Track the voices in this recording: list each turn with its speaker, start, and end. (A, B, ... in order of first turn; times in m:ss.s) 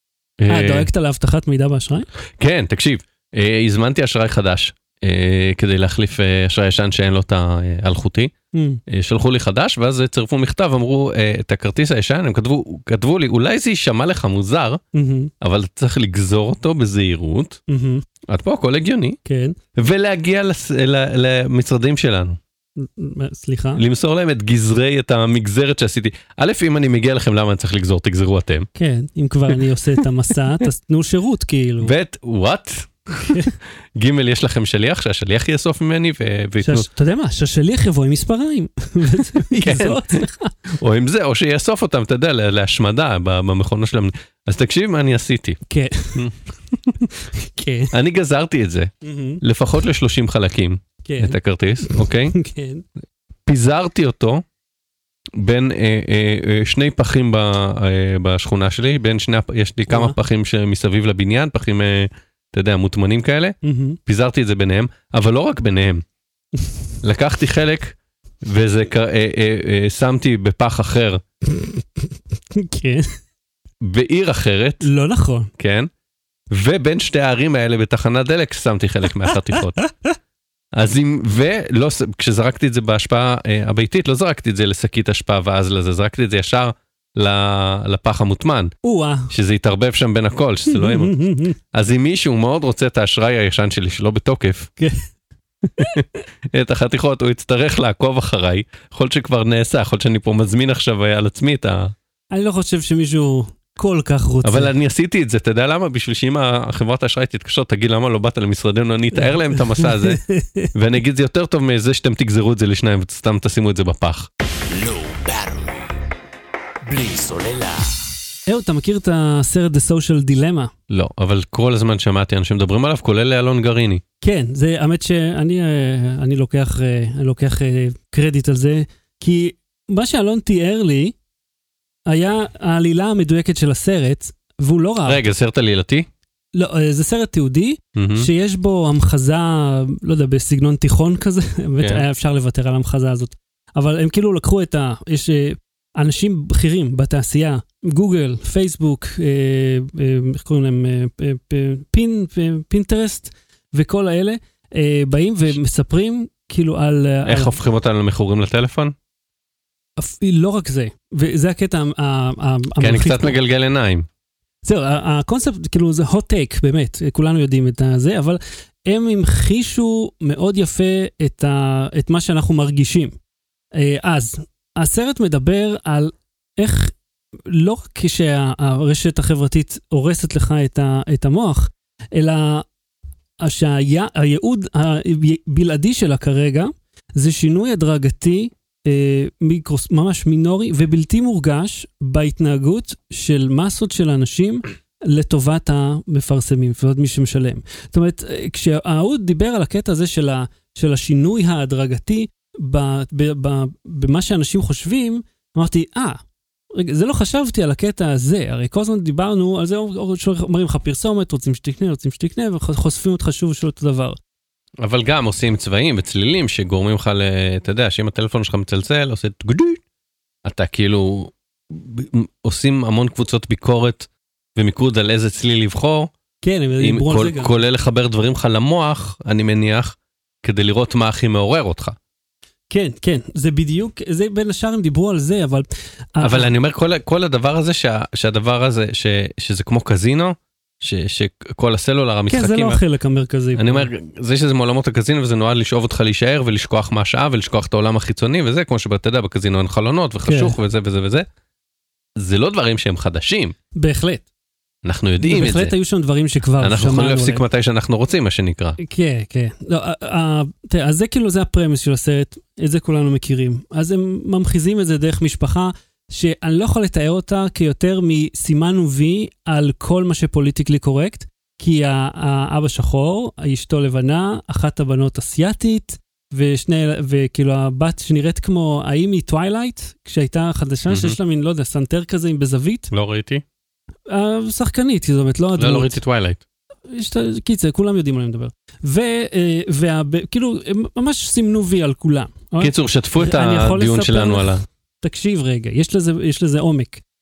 0:00.4-0:00.9 A
0:00.5-0:02.1 B
0:02.4-0:08.3 A
0:08.5-0:08.8 B
0:08.9-0:14.8 A
0:14.9-0:15.3 B
0:15.4-0:17.6 A
0:17.7-0:18.0 B
0:18.3-0:19.2 A
0:19.3-0:19.6 B
0:19.8-0:22.4 A
0:22.8-0:23.8 B
0:23.8-0:28.7 A
0:28.8-0:31.9 B
0:31.8-0:36.9 A
0:33.2-0:33.5 B
0:36.6-0:40.5 B
0:39.5-0:45.6 A
0:45.7-0:46.3 B
0:46.2-0:47.1 A
0:47.1-0:47.9 B
0:47.9-0:48.9 A
0:49.0-0:49.4 B
0:49.4-0:52.4 A
0:51.0-0:52.8 B
0:53.5-0:54.4 A
0:55.4-1:06.0 A
0:59.9-1:00.2 B
1:03.6-1:04.0 B
1:07.0-1:11.2 A
1:12.5-1:13.1 B
1:13.8-1:14.9 A
1:14.8-1:15.5 B
1:15.6-1:15.9 A
1:16.5-1:19.8 A
1:19.5-1:20.1 B
1:20.7-1:28.7 A
1:28.8-1:29.3 B
1:29.3-1:34.7 A
1:30.7-1:31.6 B
1:35.8-1:41.9 A
1:42.3-1:44.7 B
1:44.4-1:50.2 A
1:49.2-1:50.7 B
1:50.7-1:54.3 A
1:54.4-1:56.0 C
1:56.8-1:58.2 C
1:58.5-2:00.7 B
2:00.9-2:04.0 A
2:04.2-2:11.2 B
2:12.1-2:15.2 B
2:15.1-2:16.1 A
2:16.6-2:37.6 B
2:18.0-2:18.3 A
2:37.3-2:39.0 A
2:40.0-2:43.4 B
2:42.8-2:44.1 A
2:44.6-2:53.2 B
2:53.7-2:57.0 B
2:57.5-3:02.7 B
3:03.4-3:26.2 B
3:26.8-3:34.2 B
3:34.8-3:39.8 A
3:40.4-3:46.1 A
3:46.4-3:47.6 B
3:46.8-3:52.0 A
3:52.7-3:56.5 B
3:56.2-4:02.8 A
4:02.3-4:03.9 B
4:03.6-4:11.3 A
4:10.3-4:10.6 B
4:12.2-4:13.6 A
4:13.8-4:14.2 B
4:14.8-4:15.7 A
4:15.2-4:17.4 B
4:16.6-4:18.8 A
4:18.8-4:42.9 B
4:40.9-4:41.2 A
4:42.9-4:43.4 A
4:44.1-4:46.0 B
4:45.6-4:46.4 A
4:46.9-4:57.0 B
4:52.6-4:54.6 A